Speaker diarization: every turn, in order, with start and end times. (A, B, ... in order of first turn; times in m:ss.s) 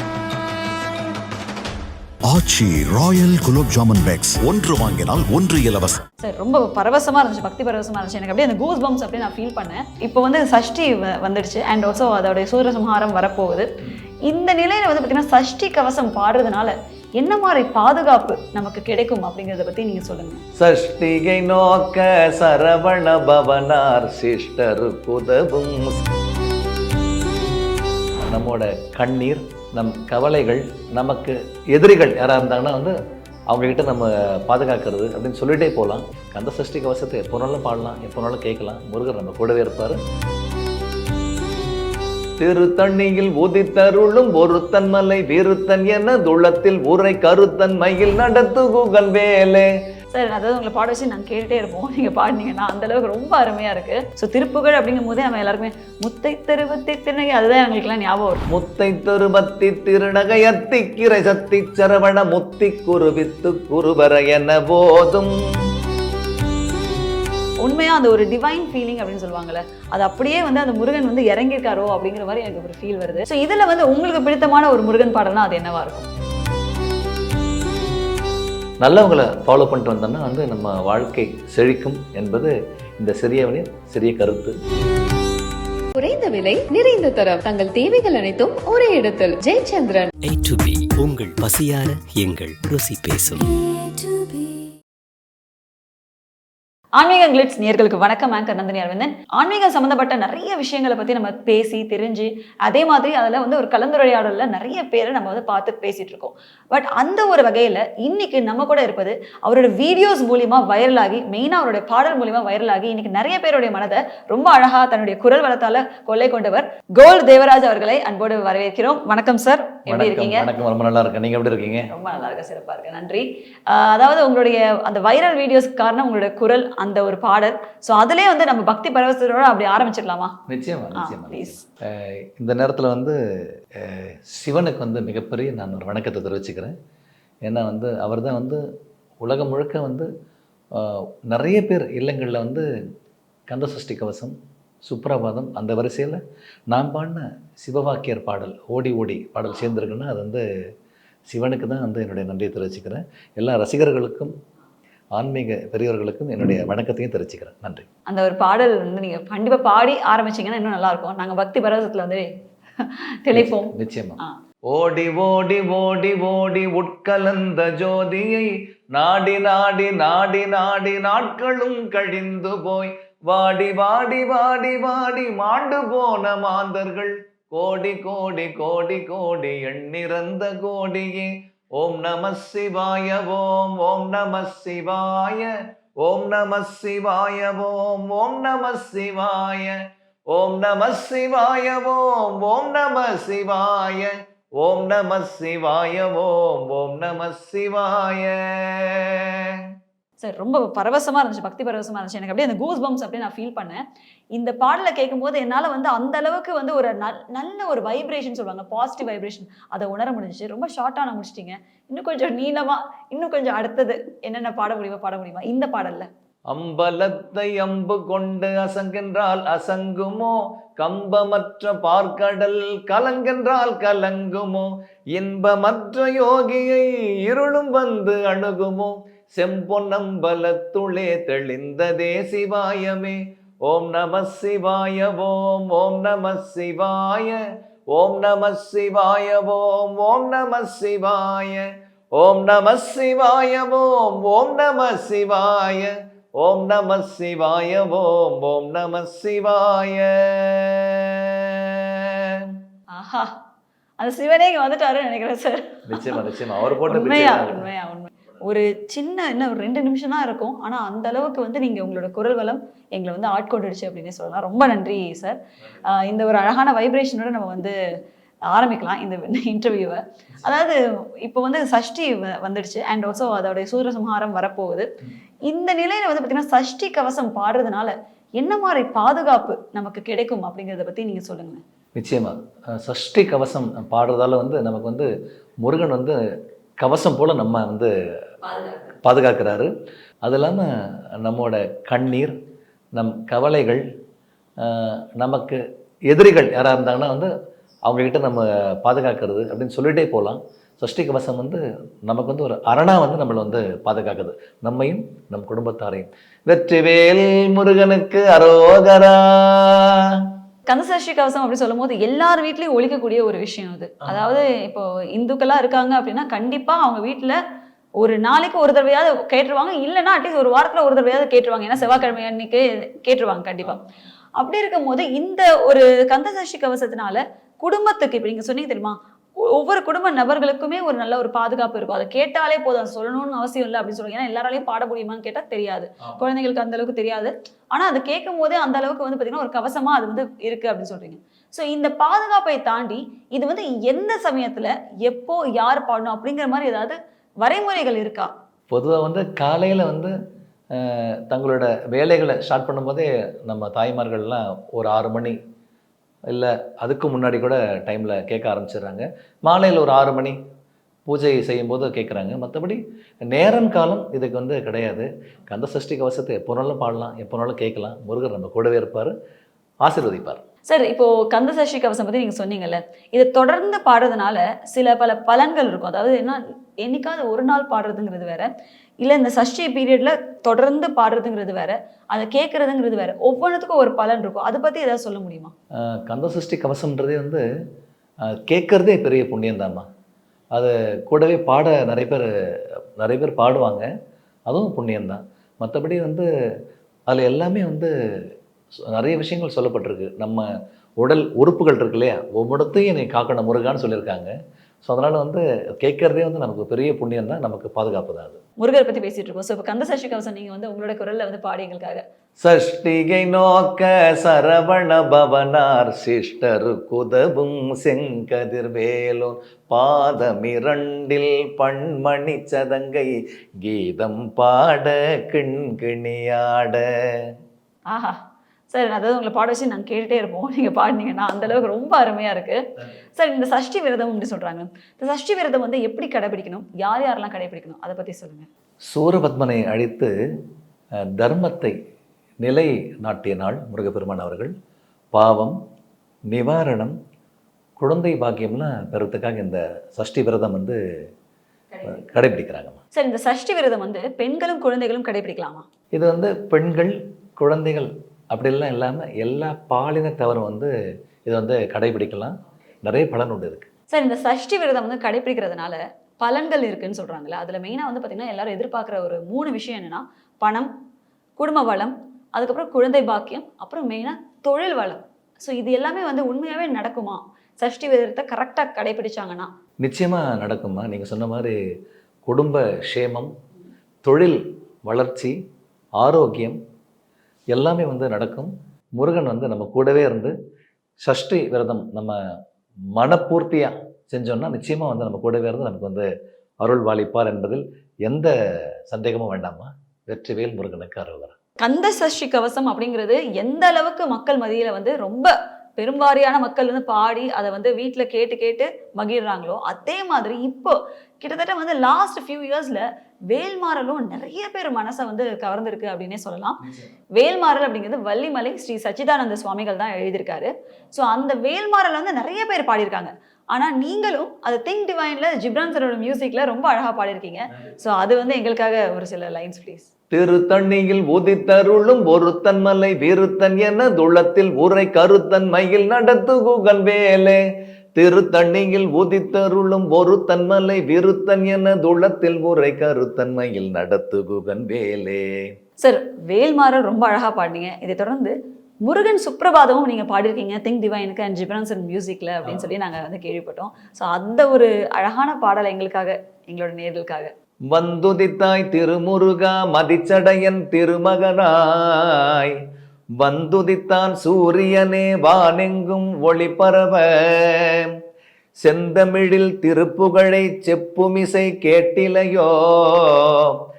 0:02.3-0:06.0 A
0:06.2-0:13.7 B
0:14.3-0:20.4 B
0:20.6-0:26.0 C
0:28.2-0:33.0 C
0:33.5-0:40.0 C
0:42.4-0:49.7 C
0:50.1-0:58.4 B
0:58.5-1:05.4 C
1:07.6-1:16.1 B
1:18.8-1:24.5 C
1:26.0-1:30.1 D
1:30.2-1:33.5 E
1:37.0-2:00.5 B
1:59.9-2:01.9 C
2:01.9-2:10.4 B
2:10.5-2:13.2 C
2:11.0-2:11.6 B
2:13.8-2:16.7 C
2:17.5-2:18.6 C
2:19.2-2:20.1 C
2:20.8-2:22.7 C
2:23.5-2:30.4 C
2:31.3-2:34.3 C
2:35.2-2:37.9 C
2:38.1-2:42.3 B
2:42.8-2:44.4 B
2:43.3-2:44.2 C
2:44.7-3:05.5 C
3:06.0-3:09.8 C
3:10.3-3:19.4 C
3:20.2-3:23.8 B
3:24.4-3:36.1 B
3:36.5-3:57.4 C
3:57.9-4:11.4 C
4:12.9-4:13.3 B
4:14.0-4:16.2 B
4:15.9-4:17.7 C
4:16.9-4:27.8 B
4:28.5-4:34.9 B
4:35.5-4:41.6 B
4:42.0-4:45.1 C
4:45.6-4:46.2 C
4:46.8-4:47.9 C
4:48.4-4:48.9 B
4:49.0-4:49.7 C
4:50.2-4:50.7 C
4:51.2-4:52.4 C
4:53.0-4:53.8 C
4:54.6-4:57.3 C
4:57.9-5:09.9 C
5:10.7-5:17.4 B
5:18.0-5:23.8 B
5:24.4-5:48.3 B
5:48.7-5:50.1 C
5:50.8-5:55.4 C
5:56.3-6:00.4 C
6:01.1-6:09.1 C
6:09.8-6:10.4 C
6:10.7-6:18.5 B
6:19.0-6:25.5 B
6:26.0-6:27.4 C
6:28.3-6:29.9 C
6:30.6-6:32.3 C
6:33.0-6:33.9 C
6:34.5-6:36.3 C
6:37.1-6:37.9 C
6:39.0-6:40.4 C
6:41.0-6:44.3 C
6:44.8-6:48.4 C
6:48.6-6:52.0 B
6:52.4-7:03.1 C
7:03.6-7:06.8 C
7:07.9-7:08.2 B
7:08.7-7:12.6 B
7:13.2-7:18.5 B
7:18.9-7:20.1 C
7:21.2-7:21.7 C
7:22.4-7:24.5 C
7:25.1-7:25.6 C
7:26.3-7:27.0 C
7:27.8-7:30.8 C
7:31.7-7:32.2 B
7:31.9-7:32.8 C
7:33.0-7:35.7 B
7:36.0-7:40.7 C
7:41.3-7:42.3 C
7:42.8-7:43.7 C
7:43.9-7:50.7 B
7:51.4-7:59.5 B
7:59.8-8:01.6 C
8:02.2-8:03.3 C
8:04.0-8:05.3 C
8:06.0-8:06.6 C
8:07.5-8:10.3 C
8:11.0-8:12.2 C
8:13.0-8:16.1 C
8:16.6-8:18.3 C
8:18.9-8:21.3 C
8:21.6-8:36.6 B
8:37.2-8:49.9 B
8:50.1-8:57.4 C
8:58.0-9:05.3 C
9:05.8-9:17.3 B
9:17.7-9:22.5 C
9:23.2-9:27.8 C
9:28.6-9:33.5 C